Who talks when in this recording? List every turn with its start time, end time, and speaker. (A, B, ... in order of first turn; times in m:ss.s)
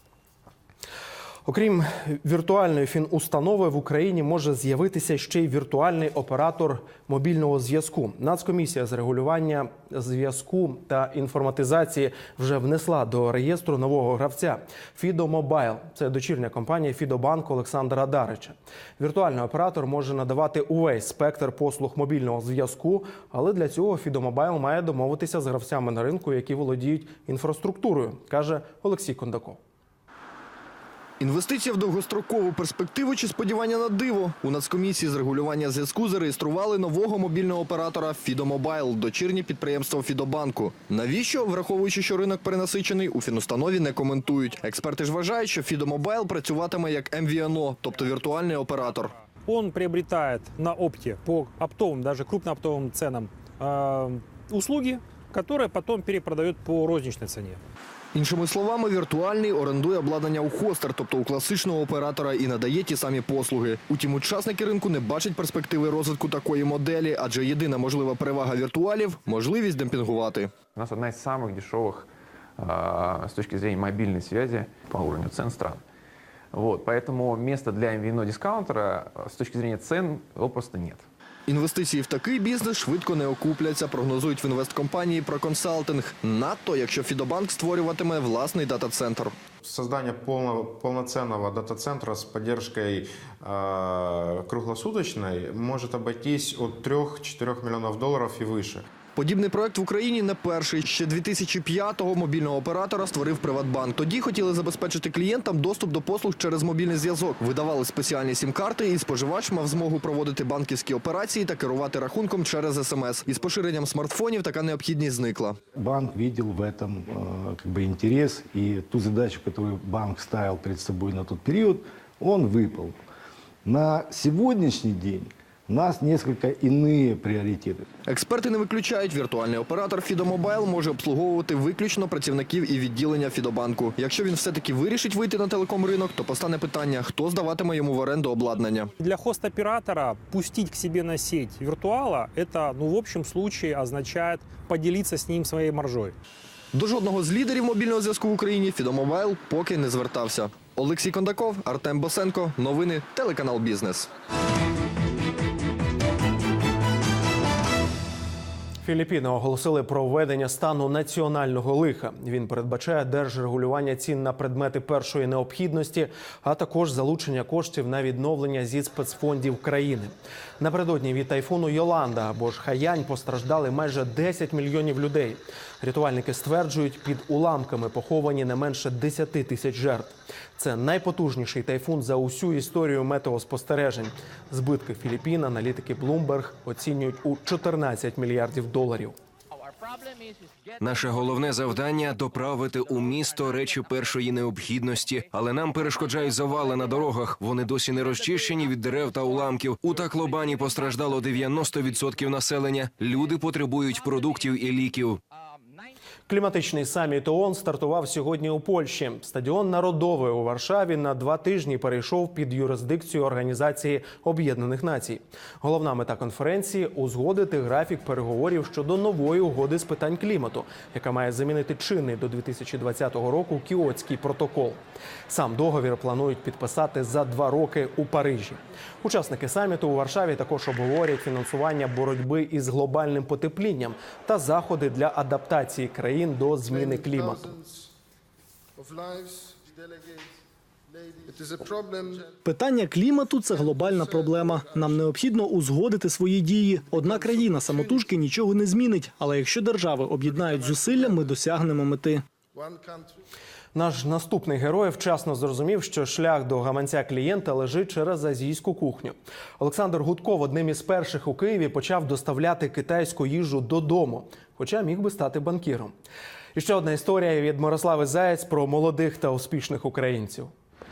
0:01.4-0:29.6 A
0:31.2-0:49.1 B
0:49.4-0:57.6 C
0:58.1-1:10.5 B
1:10.7-1:12.1 D
1:12.6-1:15.8 D
1:16.5-1:21.0 D
1:21.5-1:29.4 B
1:29.6-1:38.8 E
1:39.2-1:55.6 B
1:55.8-2:02.9 F
2:03.6-2:07.9 F
2:08.0-2:18.9 B
2:19.0-2:26.1 C
2:26.7-2:34.1 B
2:38.8-3:09.2 A
3:10.8-3:25.2 G
3:26.3-3:57.5 A
4:02.4-4:12.2 H
4:13.7-4:25.9 A
4:26.5-4:30.5 A